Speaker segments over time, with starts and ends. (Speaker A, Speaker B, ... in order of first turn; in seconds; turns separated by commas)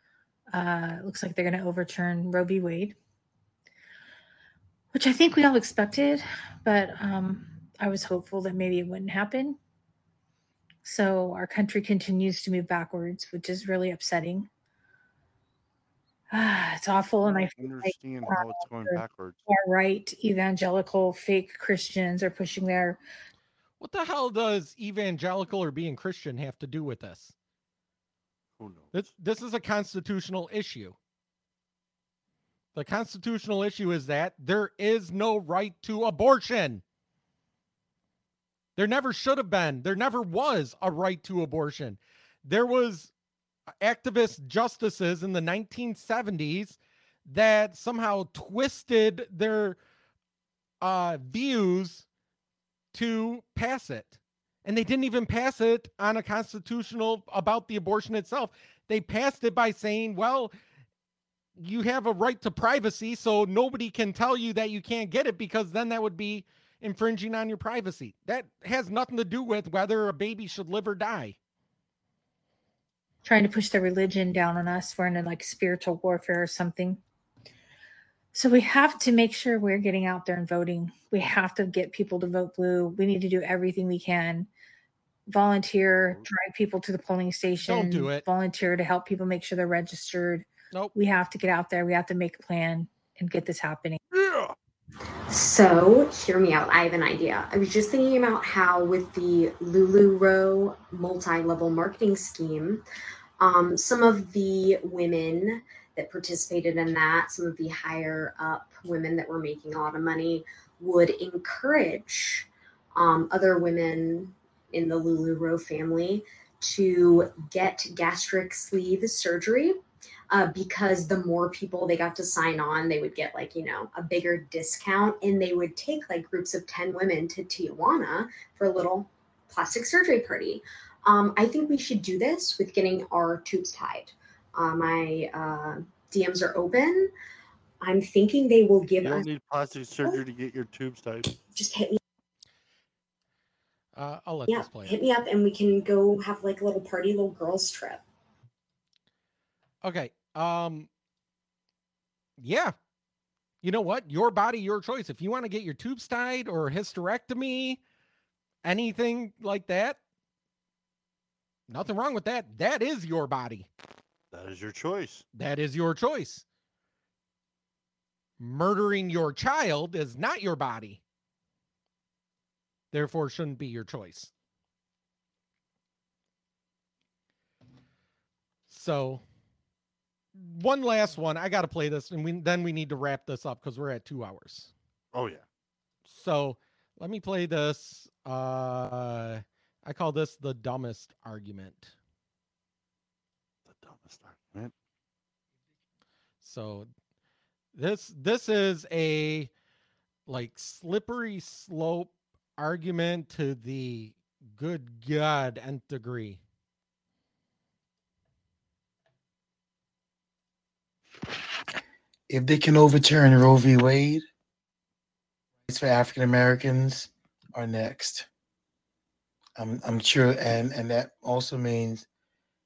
Speaker A: 0.5-3.0, Speaker A: 4.9-9.6, Speaker A: 10.8-14.5, Speaker A: 16.3-23.0, Speaker B: 17.4-19.4, Speaker C: 23.8-27.3, Speaker B: 28.6-29.1, Speaker C: 28.9-31.0, Speaker C: 32.7-36.8, Speaker C: 38.8-43.1, Speaker C: 43.8-49.8, Speaker C: 50.8-52.0, Speaker C: 52.9-60.5, Speaker C: 61.6-71.4, Speaker A: 73.2-77.0, Speaker A: 78.3-84.5, Speaker A: 85.3-94.0, Speaker C: 87.6-88.2, Speaker B: 94.1-94.5, Speaker D: 95.3-102.8, Speaker D: 103.4-119.7, Speaker D: 120.3-137.1, Speaker D: 137.8-139.3, Speaker B: 139.0-141.2, Speaker D: 141.5-142.0, Speaker C: 143.9-145.0, Speaker D: 144.5-148.0, Speaker C: 149.8-150.9, Speaker C: 152.4-152.7, Speaker C: 153.6-157.8, Speaker C: 158.6-160.0, Speaker C: 161.7-163.7, Speaker B: 164.3-165.2, Speaker C: 165.3-166.4, Speaker C: 168.4-171.0, Speaker C: 172.9-174.3, Speaker C: 178.7-179.2, Speaker C: 180.3-184.7, Speaker B: 185.1-185.4, Speaker C: 186.1-191.9, Speaker B: 193.7-194.7, Speaker C: 196.4-196.9, Speaker C: 197.7-199.5, Speaker C: 200.3-206.4, Speaker E: 212.3-214.2, Speaker E: 215.7-218.3, Speaker E: 219.6-222.1